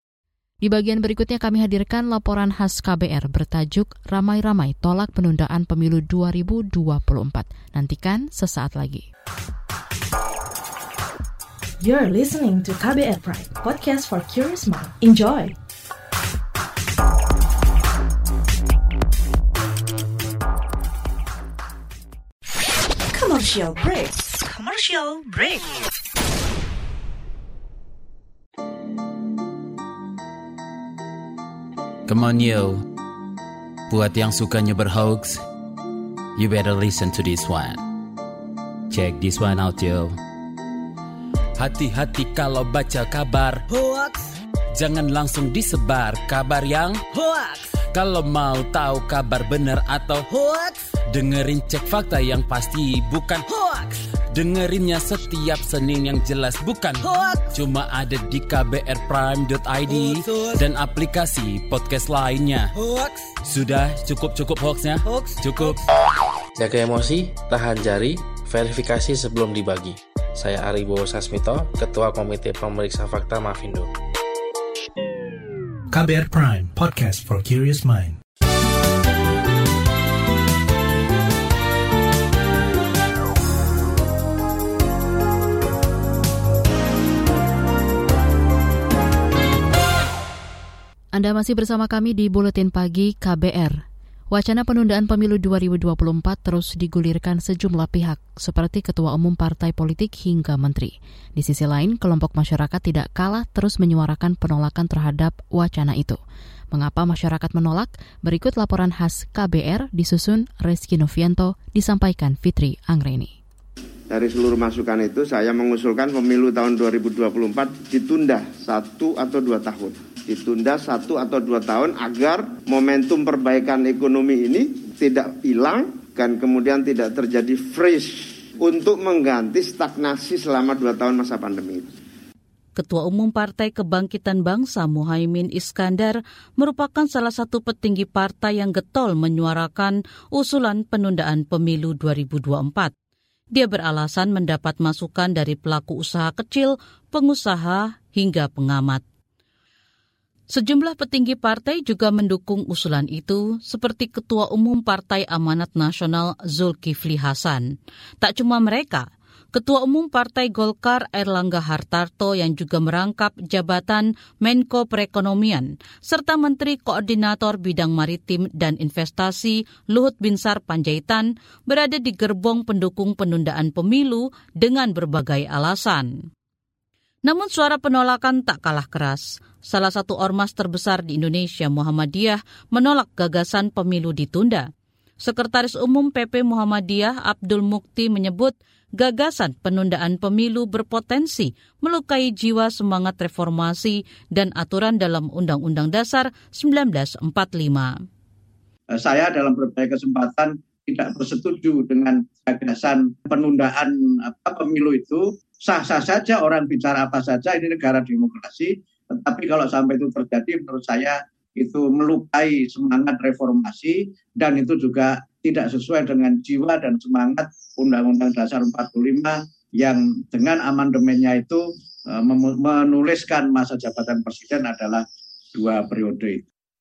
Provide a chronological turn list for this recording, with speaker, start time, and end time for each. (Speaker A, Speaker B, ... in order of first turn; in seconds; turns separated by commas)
Speaker A: 0.6-9.1, Speaker B: 11.8-15.5, Speaker B: 23.1-25.0, Speaker C: 24.5-25.5, Speaker D: 32.0-32.8, Speaker D: 33.9-35.4, Speaker D: 36.4-37.8, Speaker D: 38.9-40.1, Speaker D: 41.6-43.6, Speaker C: 43.7-44.3, Speaker D: 44.8-47.0, Speaker C: 47.1-47.6, Speaker D: 47.9-50.3, Speaker C: 50.3-50.8, Speaker D: 51.1-53.5, Speaker C: 53.5-53.9, Speaker D: 54.3-62.7, Speaker C: 57.0-57.5, Speaker C: 59.9-60.5, Speaker C: 62.8-63.3, Speaker D: 63.4-65.8, Speaker C: 65.0-65.8, Speaker E: 66.6-73.9, Speaker F: 75.9-78.2, Speaker A: 91.1-93.8, Speaker A: 94.3-106.2, Speaker A: 106.7-113.3, Speaker G: 114.1-132.0, Speaker H: 132.8-142.9, Speaker H: 143.5-149.0, Speaker H: 150.5-176.1, Speaker H: 177.2-184.7, Speaker H: 185.2-198.0, Speaker I: 198.9-226.4